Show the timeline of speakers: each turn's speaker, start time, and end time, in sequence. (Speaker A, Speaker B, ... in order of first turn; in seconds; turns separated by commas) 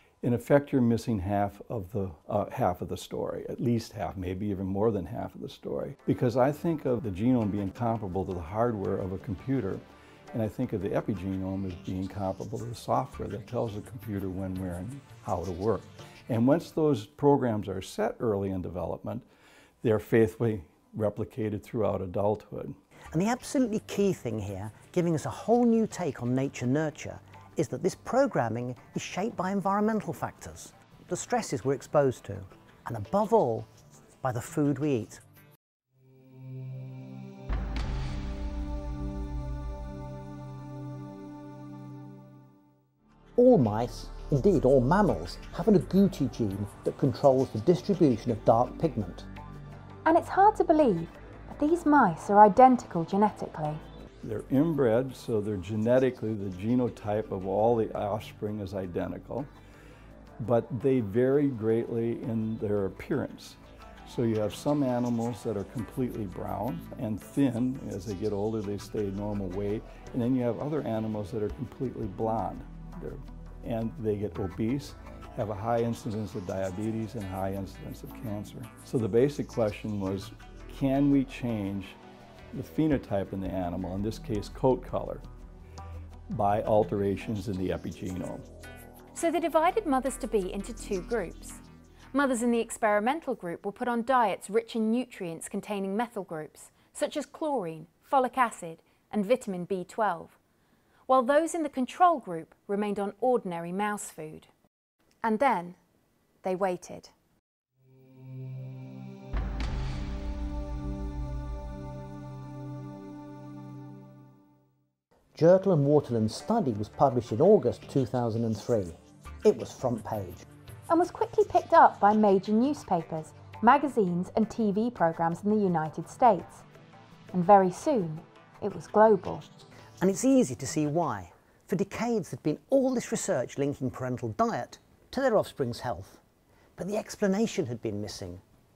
Speaker A: 0.2-19.2, Speaker A: 19.8-22.7, Speaker B: 23.1-33.7, Speaker B: 34.2-35.2, Speaker B: 43.4-49.3, Speaker C: 50.0-53.8, Speaker A: 54.2-59.5, Speaker A: 60.4-82.0, Speaker A: 82.5-85.2, Speaker A: 86.3-88.5, Speaker C: 89.1-91.6, Speaker C: 92.1-100.4, Speaker C: 101.1-104.5, Speaker C: 105.2-105.8, Speaker C: 106.4-107.1, Speaker B: 115.3-120.5, Speaker C: 120.9-126.7, Speaker C: 127.3-129.4, Speaker B: 130.0-136.2, Speaker B: 136.8-138.4